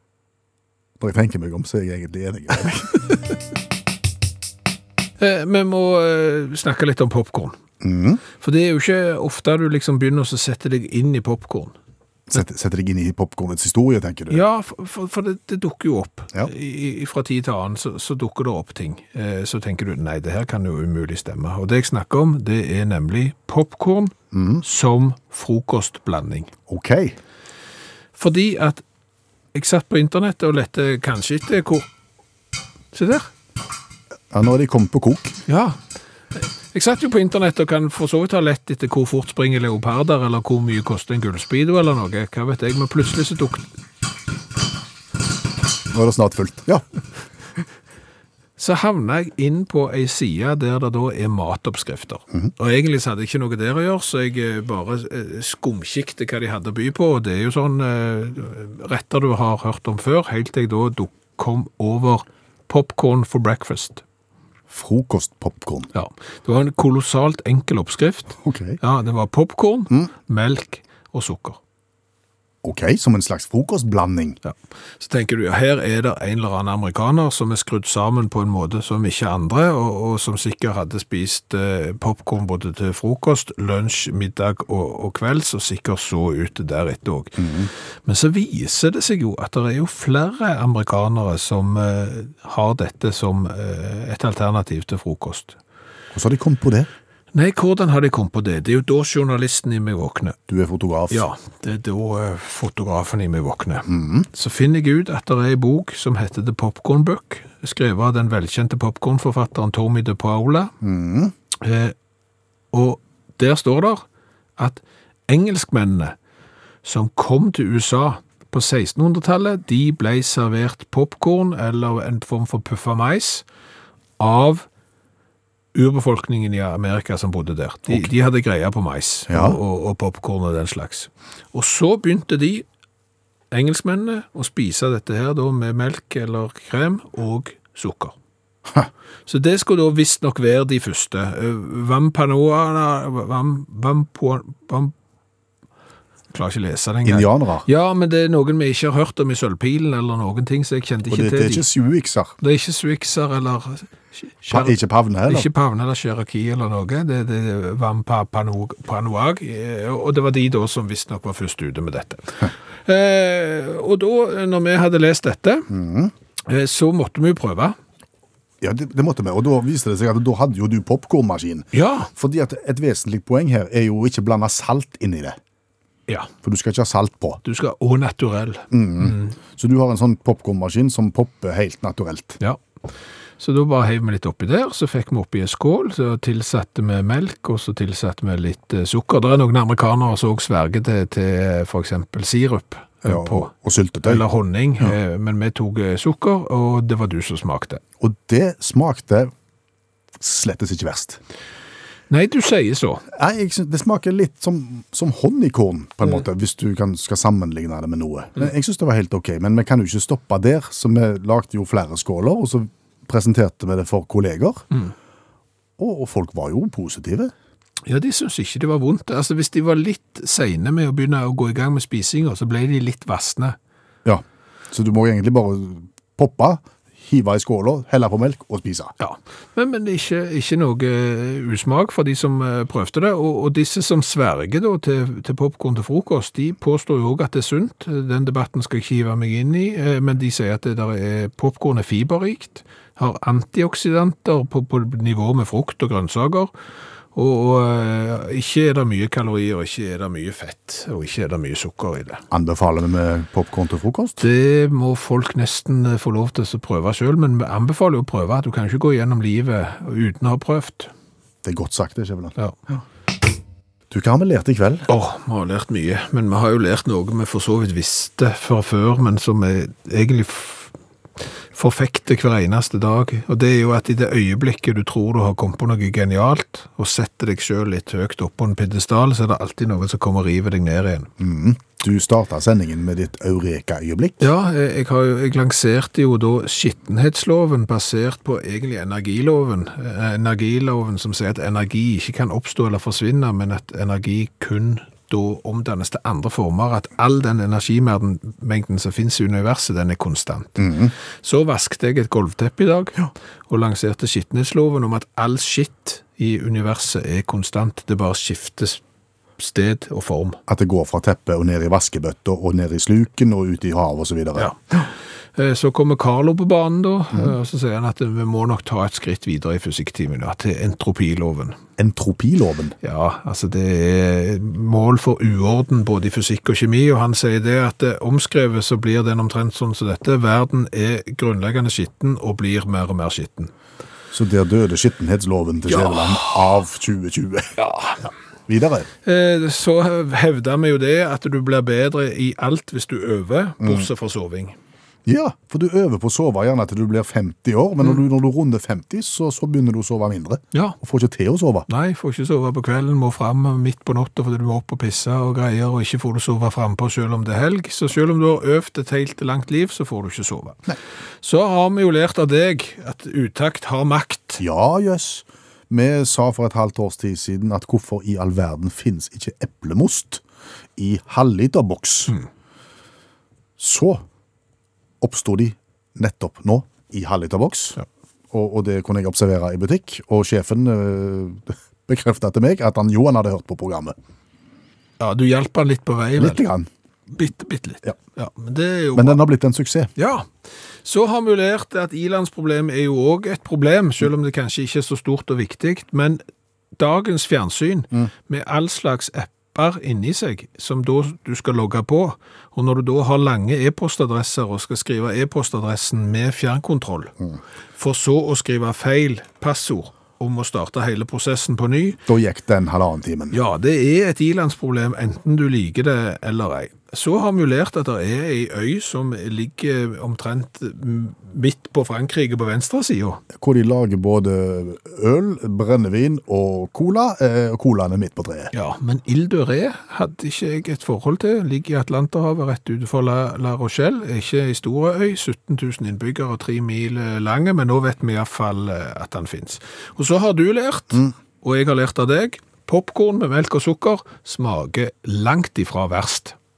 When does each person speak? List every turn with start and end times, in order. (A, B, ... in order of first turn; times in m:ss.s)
0:01.0-0:02.9 A
0:05.2-0:07.6 B
0:07.8-0:08.2 A
0:08.4-0:11.8 B
0:12.3-0:14.4 A
0:14.3-0:26.5 B
0:24.3-0:24.6 A
0:26.7-0:27.2 A
0:28.1-0:28.8 B
0:29.5-0:31.9 B
0:32.9-0:33.3 B
0:34.3-0:35.4 A
0:35.5-0:35.8 B
0:36.3-0:43.7 B
0:45.9-0:46.8 A
0:48.6-1:04.0 B
1:04.7-1:05.9 A
1:05.9-1:11.6 B
1:08.4-1:08.8 A
1:12.6-1:14.4 A
1:14.4-1:27.5 B
1:27.4-1:27.7 A
1:28.0-1:35.6 B
1:36.1-1:36.9 A
1:37.3-1:40.4 B
1:40.5-1:41.3 A
1:41.1-1:50.7 B
1:43.9-1:44.3 A
1:50.8-1:51.3 A
1:51.6-1:52.0 B
1:52.7-1:54.0 B
1:54.6-1:56.1 B
1:56.8-2:03.4 B
2:04.2-2:04.7 B
2:05.7-2:12.6 B
2:09.3-2:09.6 A
2:13.5-2:18.1 B
2:19.3-2:24.9 B
2:26.3-2:31.6 B
2:27.0-2:27.7 A
2:31.1-2:32.4 A
2:32.4-2:34.8 B
2:34.5-2:35.5 A
2:35.3-2:45.7 B
2:45.7-2:46.1 A
2:46.5-2:47.8 B
2:48.6-2:55.4 A
2:51.7-2:52.1 B
2:56.4-2:57.4 A
2:57.4-2:59.4 B
2:58.7-3:02.4 A
3:03.4-3:13.5 B
3:13.1-3:14.2 A
3:14.0-3:17.8 B
3:18.0-3:19.3 A
3:20.2-3:21.2 A
3:22.1-3:23.0 B
3:23.1-3:34.7 A
3:35.8-3:37.3 A
3:37.9-3:43.6 B
3:44.0-3:48.9 A
3:49.0-4:06.5 B
4:07.1-4:12.2 B
4:12.3-4:14.2 A
4:14.2-4:20.9 B
4:21.4-4:22.8 A
4:23.9-4:24.9 A
4:24.9-4:30.7 B
4:31.5-4:41.1 B
4:41.2-4:44.3 A
4:44.2-5:08.8 B
5:00.6-5:00.9 A
5:09.4-5:10.4 B
5:10.5-5:14.8 A
5:14.4-5:21.6 B
5:21.8-5:22.7 A
5:22.8-5:33.5 B
5:34.1-5:38.9 A
5:35.7-5:36.6 B
5:37.6-5:38.0 B
5:39.0-5:44.6 B
5:43.6-5:43.9 A
5:45.1-5:51.7 A
5:51.7-6:04.4 B
6:04.4-6:10.2 A
6:10.8-6:12.2 A
6:13.6-6:14.0 A
6:15.0-6:17.8 A
6:18.3-6:24.0 A
6:25.0-6:26.4 B
6:26.2-6:26.7 A
6:27.1-6:29.2 B
6:29.0-6:29.9 A
6:30.0-6:36.2 B
6:36.8-6:47.1 B
6:47.8-6:52.0 B
6:52.1-6:53.4 A
6:53.3-7:03.2 B
7:03.3-7:08.5 A
7:08.5-7:26.4 B